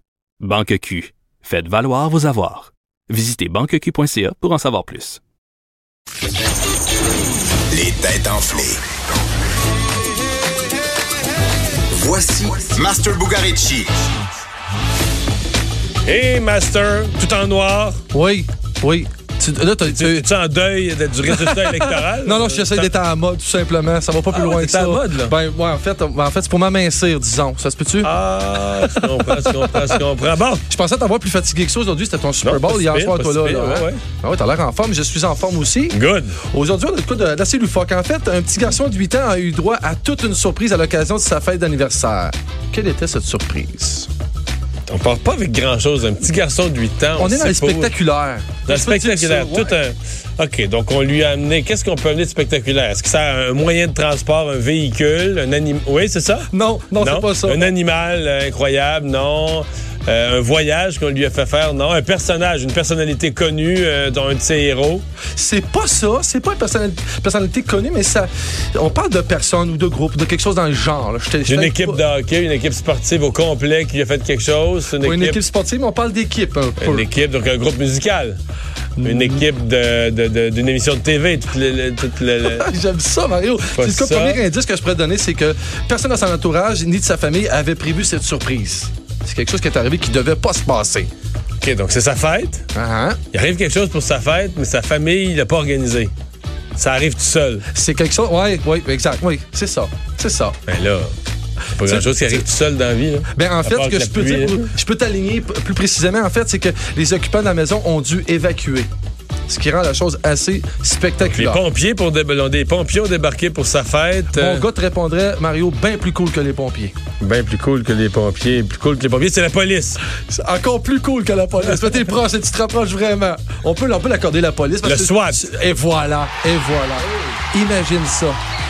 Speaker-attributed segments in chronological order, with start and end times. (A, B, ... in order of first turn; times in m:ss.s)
0:00.4-0:05.2 A
0:07.7-0:08.8 B
0:11.9-0:13.9 B
0:16.0-0:18.0 C
0:18.1-0:20.3 D
0:19.9-0:22.9 C
0:21.3-0:28.1 D
0:24.3-0:25.3 C
0:28.0-0:30.6 C
0:28.7-0:30.0 D
0:30.7-0:44.1 D
0:32.4-0:34.0 C
0:35.9-0:36.4 C
0:44.9-0:47.9 C
0:47.2-0:49.8 D
0:48.7-1:05.0 C
0:56.5-0:57.7 D
1:05.4-1:12.0 D
1:11.5-1:15.4 C
1:15.0-1:17.1 D
1:16.8-1:18.4 C
1:19.0-1:22.7 C
1:19.0-1:19.4 D
1:22.4-1:31.1 D
1:23.7-1:24.4 C
1:31.6-1:32.6 C
1:32.8-1:33.2 D
1:33.3-1:36.1 C
1:36.8-1:37.7 C
1:37.7-1:40.6 D
1:40.7-1:41.1 C
1:41.8-1:44.7 C
1:41.8-1:42.4 D
1:43.3-1:48.9 D
1:49.5-1:51.6 D
1:51.2-1:54.6 C
1:54.3-1:56.9 D
1:57.2-2:00.0 C
2:00.3-2:08.4 D
2:04.8-2:05.4 C